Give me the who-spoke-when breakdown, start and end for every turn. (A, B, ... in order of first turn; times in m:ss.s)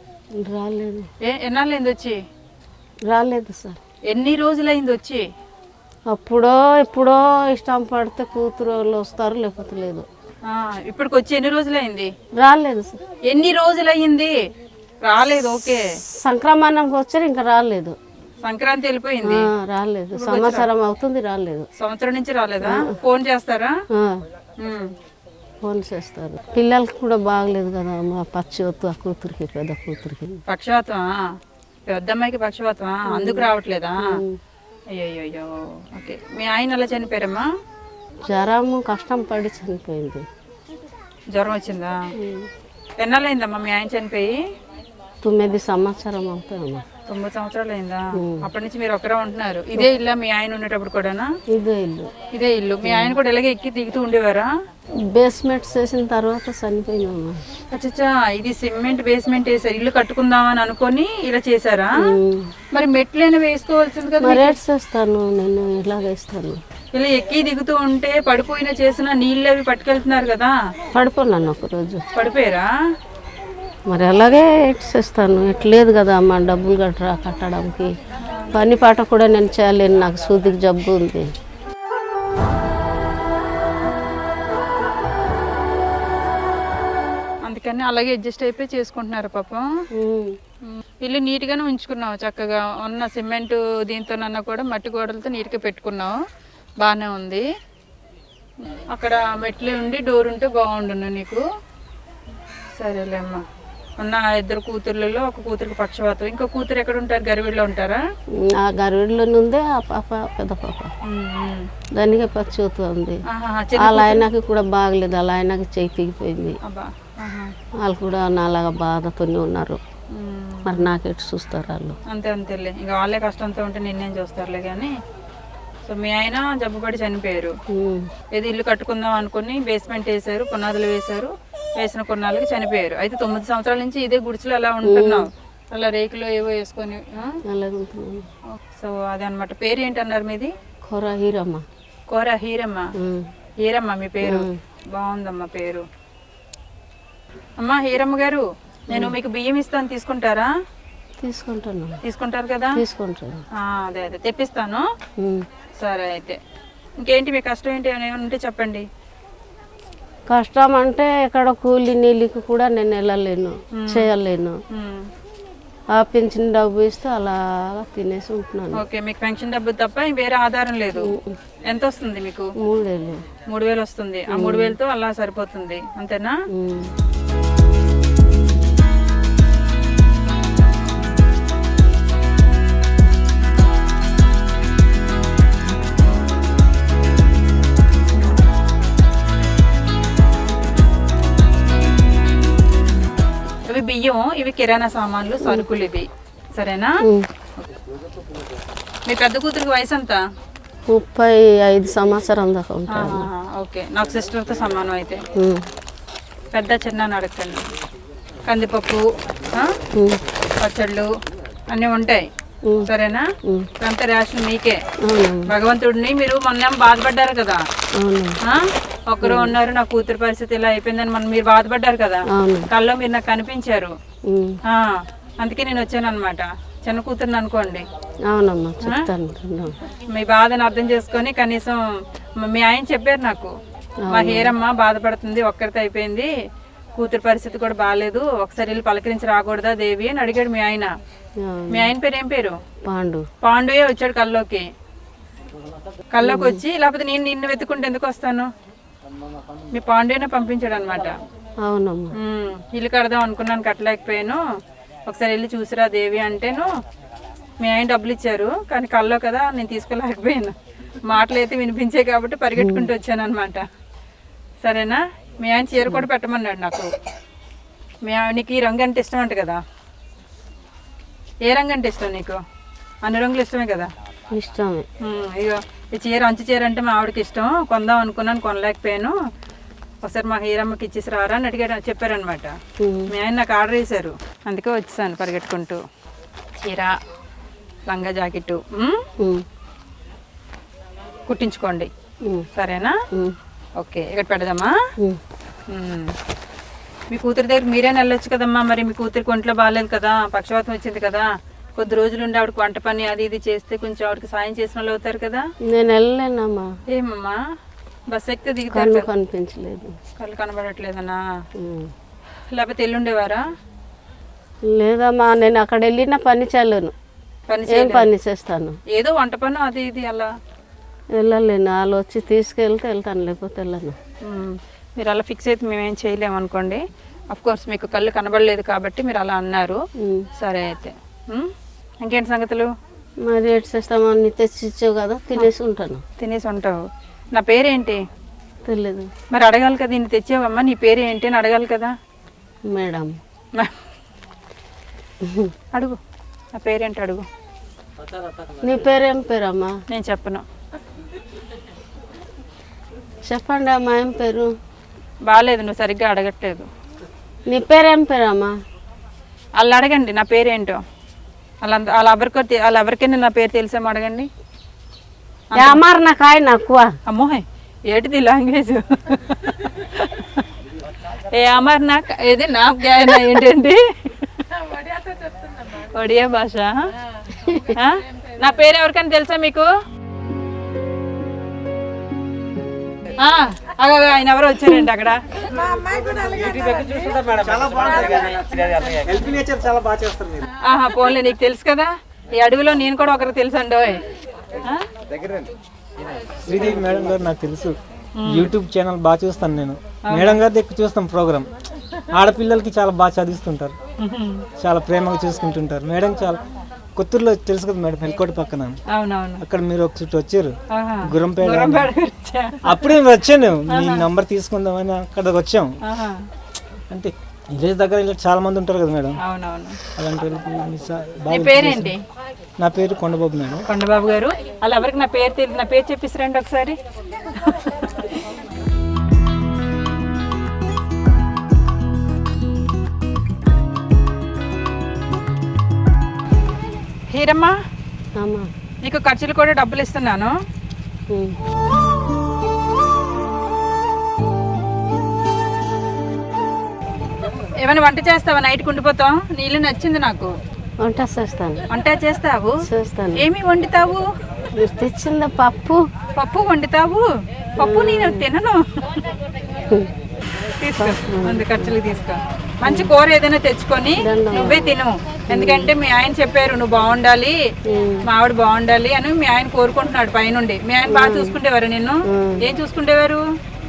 0:00.4-0:01.1 A
0:01.2-0:02.2 B
0:03.1-0:03.8 A
0:04.1-0:05.2 B
0:06.1-0:10.1 A
0:10.5-0:12.1 B
0:12.4-0:13.0 A
0:13.3-0:14.3 B
0:15.0-0:15.8 B
0:16.2-0:18.0 A
0:18.4-0:19.4 B
0:19.2-0:21.7 A
0:20.2-0:20.7 B
0:21.8-0:23.7 B
0:22.6-0:23.0 A
0:23.9-0:24.3 A
0:24.6-0:24.9 B
0:25.6-0:30.4 A
0:30.5-0:31.4 B
0:31.9-0:34.2 B
0:33.1-0:34.4 A
0:34.9-0:37.5 B
0:38.3-0:40.2 A
0:41.3-0:42.0 B
0:42.2-0:42.5 A
0:43.0-0:44.4 B
0:45.2-0:46.8 A
0:47.1-0:51.3 B
0:48.2-0:48.5 A
0:51.5-0:52.1 A
0:52.4-0:54.5 B
0:52.8-0:53.2 A
0:55.1-0:57.4 A
0:57.7-1:02.0 B
1:02.0-1:02.5 A
1:02.7-1:04.6 B
1:04.2-1:06.6 A
1:07.0-1:10.5 B
1:11.0-1:12.0 A
1:12.1-1:12.7 B
1:13.9-1:17.9 A
1:18.5-1:21.3 A
1:27.4-1:29.7 B
1:30.0-1:30.4 A
1:30.7-1:36.2 B
1:36.8-1:37.5 B
1:38.9-1:41.4 B
1:42.8-1:43.4 B
1:44.0-1:48.0 B
1:48.6-1:50.9 A
1:51.0-1:51.7 B
1:52.0-1:53.2 A
1:53.3-1:54.3 B
1:53.8-1:56.6 A
1:56.6-1:57.5 B
1:57.8-1:59.8 A
2:00.1-2:00.9 B
2:00.7-2:02.0 A
2:02.1-2:04.9 B
2:05.8-2:07.6 B
2:07.7-2:08.1 A
2:08.3-2:17.4 B
2:14.8-2:15.3 A
2:17.5-2:18.3 A
2:18.6-2:20.5 B
2:20.9-2:21.6 A
2:22.1-2:22.9 B
2:23.0-2:23.3 A
2:23.6-2:25.8 B
2:24.2-2:24.6 A
2:27.6-2:30.5 B
2:28.9-2:29.2 A
2:31.2-2:32.0 A
2:32.0-2:32.7 B
2:32.8-2:33.4 A
2:33.6-2:34.8 B
2:35.2-2:35.4 A
2:35.8-2:36.4 B
2:37.0-2:38.8 B
2:40.3-2:44.6 A
2:43.8-2:44.1 B
2:44.7-2:45.1 B
2:46.0-2:48.8 A
2:48.8-2:51.1 B
2:51.0-2:51.4 A
2:51.7-2:52.5 B
2:52.6-2:53.2 A
2:53.5-2:56.4 B
2:54.3-2:54.8 A
2:56.6-2:56.9 A
3:13.7-3:16.9 B
3:15.4-3:15.7 A
3:19.1-3:20.2 B
3:20.9-3:23.3 A
3:22.9-3:25.2 B
3:25.4-3:25.7 A
3:26.5-3:27.7 B
3:28.4-3:29.7 B
3:29.9-3:30.2 A
3:30.6-3:31.1 B
3:31.7-3:32.3 B
3:32.9-3:33.3 B
3:33.8-3:34.8 B
3:35.1-3:35.5 A
3:35.5-3:37.6 B
3:38.0-3:38.4 A
3:38.4-3:43.9 B
3:39.2-3:39.6 A
3:42.4-3:42.7 A
3:44.3-3:44.6 A
3:44.7-3:47.9 B
3:48.3-3:49.8 A
3:50.1-3:51.8 B
3:52.4-3:53.5 B
3:54.1-3:54.5 A
3:54.1-3:56.3 B
3:57.0-4:00.9 B
4:01.4-4:01.9 A
4:01.7-4:02.6 B
4:02.9-4:03.2 A
4:03.4-4:04.7 B
4:06.1-4:08.5 B
4:06.2-4:06.6 A
4:09.7-4:11.2 B
4:11.6-4:12.1 A
4:12.2-4:14.4 B
4:15.1-4:16.7 B
4:17.6-4:20.5 B
4:21.1-4:23.6 B
4:22.6-4:22.9 A
4:24.6-4:26.9 B
4:28.1-4:29.6 B
4:31.4-4:32.4 B
4:33.0-4:33.9 B
4:34.3-4:34.9 A
4:35.0-4:39.2 B
4:40.0-4:42.5 B
4:42.8-4:43.1 A
4:43.1-4:45.8 B
4:46.6-4:47.0 B
4:47.9-4:49.0 B
4:51.3-4:51.9 B
4:52.6-4:53.0 B
4:53.8-4:54.7 B
4:55.7-4:56.1 B
4:57.1-5:05.4 B
5:05.7-5:06.7 A
5:06.9-5:07.4 B
5:08.1-5:09.1 B
5:08.7-5:10.0 A
5:10.2-5:11.2 B
5:11.6-5:11.9 A
5:12.5-5:13.4 B
5:14.7-5:16.9 A
5:17.5-5:18.1 B
5:17.7-5:18.8 A
5:18.9-5:20.3 B
5:21.2-5:24.0 A
5:24.2-5:29.8 B
5:30.0-5:30.3 A
5:30.4-5:31.5 B
5:32.0-5:32.7 B
5:33.3-5:36.0 A
5:36.2-5:36.8 B
5:37.4-5:38.0 B
5:38.6-5:39.1 A
5:39.3-5:41.9 B
5:42.7-5:43.2 A
5:45.2-5:45.5 A
5:46.5-5:47.3 B
5:48.6-5:49.7 A
5:49.9-5:50.4 B
5:53.3-5:54.5 A
5:55.3-5:56.7 B
5:57.5-5:58.5 A
5:59.6-6:00.8 B
6:01.6-6:04.3 B
6:05.5-6:05.8 B
6:05.6-6:06.9 A
6:07.1-6:10.5 B
6:11.1-6:14.5 B
6:15.7-6:16.7 B
6:17.4-6:17.8 A
6:17.7-6:19.7 B
6:23.2-6:25.2 B
6:25.5-6:30.5 C
6:30.6-6:34.0 B
6:35.2-6:35.5 C
6:36.5-6:41.5 C
6:38.2-6:38.5 B
6:40.1-6:40.4 B
6:42.1-6:43.8 C
6:44.0-6:44.5 B
6:44.6-6:46.4 C
6:47.0-6:48.8 C
6:48.9-6:49.4 B
6:49.4-6:51.9 C
6:50.7-6:52.9 B
6:52.6-6:55.7 C
6:53.7-6:54.1 B
6:55.8-6:56.3 B
6:56.9-6:59.2 C
6:59.2-6:59.8 B
6:59.9-7:01.9 C
7:01.3-7:02.0 B
7:02.6-7:03.7 C
7:03.7-7:06.8 B
7:07.3-7:08.2 B
7:17.1-7:17.6 B
7:18.2-7:18.5 A
7:18.8-7:20.3 B
7:21.1-7:21.4 A
7:27.6-7:30.3 B
7:30.8-7:31.6 A
7:31.7-7:32.6 B
7:32.7-7:33.3 A
7:33.2-7:34.0 B
7:34.6-7:35.8 A
7:36.2-7:37.0 B
7:37.6-7:39.0 B
7:37.6-7:38.2 A
7:40.6-7:47.4 B
7:40.8-7:41.8 A
7:42.7-7:42.9 A
7:44.0-7:44.8 A
7:45.3-7:45.8 A
7:47.7-7:48.1 A
7:48.0-7:53.2 B
7:50.9-7:51.4 A
7:52.1-7:52.4 A